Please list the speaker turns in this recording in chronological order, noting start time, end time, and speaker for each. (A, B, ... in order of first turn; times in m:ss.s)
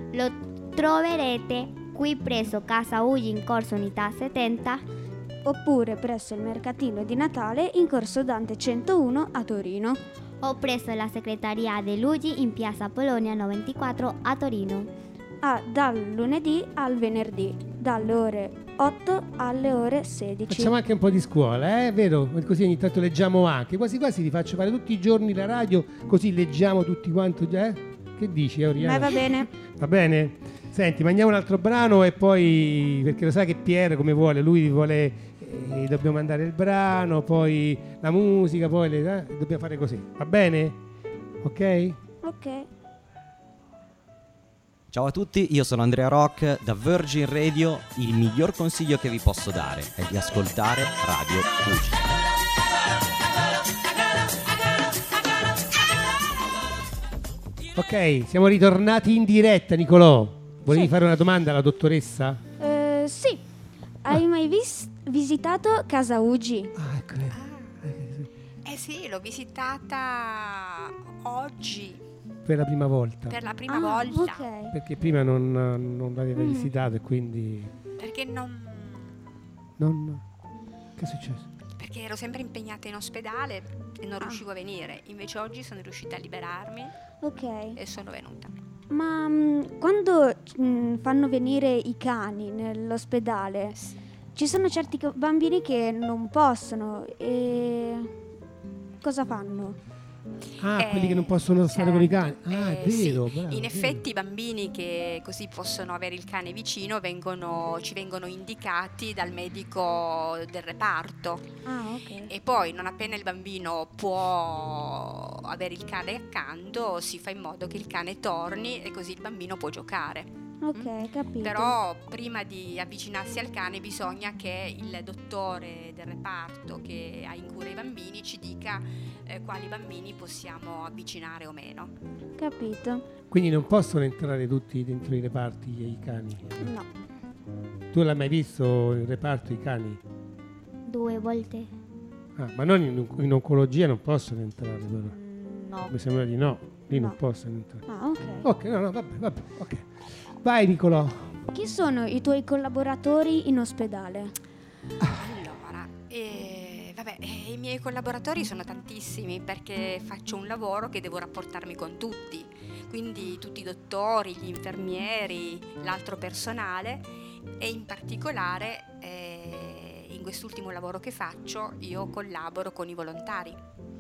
0:00.1-0:04.8 A
0:05.4-0:10.0 B
0:10.4-0:14.9 A
0:15.4-0:20.8 B
0:20.5-0:40.8 C
0:28.8-0:29.5 B
0:41.4-0:42.0 C
0:42.2-0:42.7 B
0:44.9-0:52.2 D
0:57.8-1:02.4 C
1:00.7-1:00.9 B
1:02.6-1:03.4 B
1:04.0-1:06.7 B
1:06.8-1:08.3 C
1:07.3-1:07.8 E
1:08.6-1:12.0 E
1:12.5-1:13.4 C
1:13.3-1:14.5 E
1:13.7-1:14.8 B
1:14.7-1:17.7 C
1:16.4-1:16.7 B
1:18.0-1:19.2 E
1:19.8-1:20.2 C
1:21.0-1:21.4 C
1:21.8-1:26.9 E
1:27.2-1:27.8 B
1:27.8-1:28.5 E
1:28.9-1:33.8 B
1:34.4-1:38.1 B
1:39.0-1:39.8 B
1:40.6-1:44.0 C
1:40.8-1:51.5 E
1:51.7-1:52.3 B
1:52.3-2:11.9 E
2:00.6-2:01.8 B
2:12.4-2:13.0 B
2:13.3-2:16.7 C
2:16.6-2:16.9 B
2:17.9-2:20.0 C
2:20.9-2:21.7 A
2:22.4-2:25.1 C
2:25.1-2:25.9 B
2:25.9-2:27.8 C
2:26.9-2:27.2 B
2:27.9-2:28.5 B
2:28.4-2:31.4 C
2:31.5-2:34.3 B
2:35.1-2:53.6 E